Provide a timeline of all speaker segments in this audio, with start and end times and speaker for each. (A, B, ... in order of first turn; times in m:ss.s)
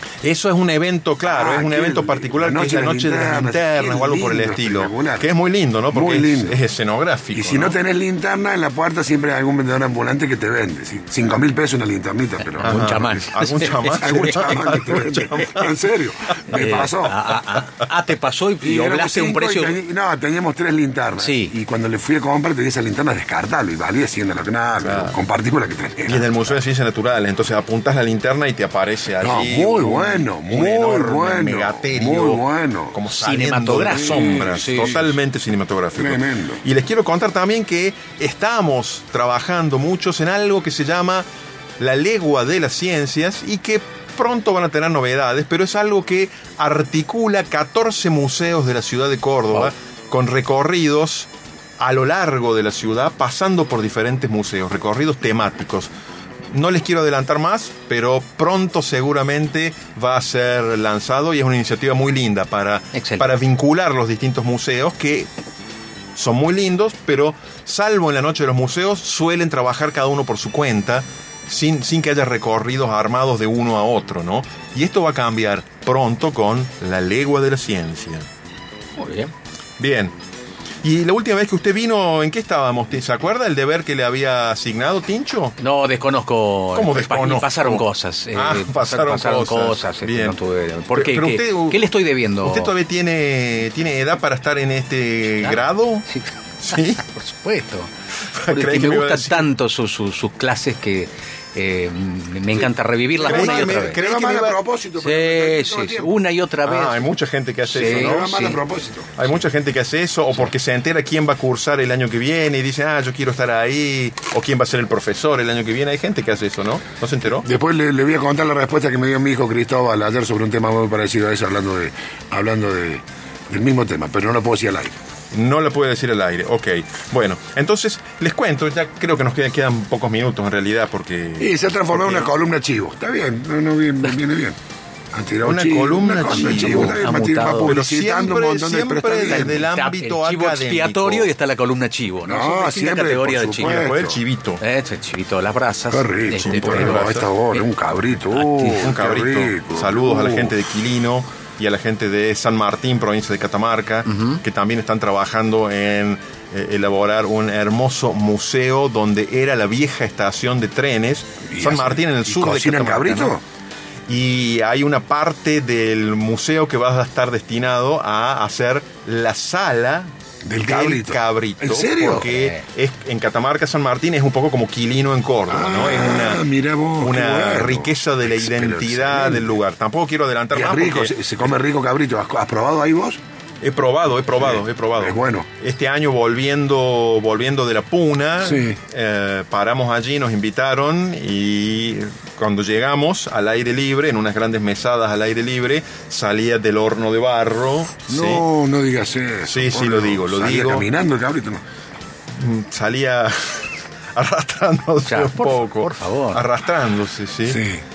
0:00.2-0:07.8 A
0:01.3-0:05.3 B
0:05.9-0:06.6 B
0:07.3-0:13.2 B
0:12.6-0:14.7 C
0:12.6-0:15.7 A
0:13.8-0:17.2 B
0:16.5-0:19.8 C
0:16.5-0:16.9 A
0:18.6-0:26.5 B
0:21.2-0:21.6 C
0:24.8-0:25.2 A
0:26.0-0:41.3 A
0:29.2-0:33.0 B
0:33.1-0:35.2 C
0:33.8-0:35.0 B
0:36.0-0:36.6 B
0:41.8-0:51.3 A
0:51.8-0:55.9 A
0:56.5-1:05.3 A
1:02.9-1:03.3 C
1:06.2-1:18.3 A
1:19.0-1:19.3 C
1:19.8-1:20.1 A
1:20.8-1:25.6 A
1:25.6-1:32.7 C
1:26.7-1:30.4 A
1:30.9-1:31.9 A
1:32.4-1:36.1 A
1:35.3-1:37.9 C
1:36.6-1:37.0 A
1:38.3-1:39.5 A
1:38.5-1:44.0 C
1:43.2-1:46.2 B
1:43.3-1:44.6 A
1:45.0-1:47.1 C
1:46.6-1:48.4 A
1:47.6-1:48.6 C
1:47.7-1:49.2 B
1:49.2-1:57.5 A
1:57.4-2:05.0 B
2:05.3-2:12.3 A
2:11.4-2:14.6 B
2:15.1-2:19.7 B
2:15.4-2:17.0 A
2:16.4-2:17.8 C
2:17.6-2:21.3 A
2:19.3-2:23.8 C
2:22.3-2:24.2 B
2:23.6-2:24.6 A
2:24.6-2:27.6 C
2:25.9-2:30.6 B
2:26.4-2:27.3 A
2:28.3-2:28.9 C
2:28.6-2:43.4 A
2:34.1-2:34.4 C
2:41.4-2:43.4 B
2:44.1-2:56.5 A
2:50.5-2:52.3 B
2:52.1-2:52.6 C
2:55.5-2:59.6 B
2:57.0-3:01.2 A
3:00.5-3:03.2 B
3:03.6-3:18.5 A
3:04.4-3:05.5 B
3:08.4-3:08.8 B
3:18.1-3:21.6 B
3:19.4-3:20.9 A
3:22.3-3:27.6 A
3:25.0-3:26.5 C
3:27.5-3:27.8 B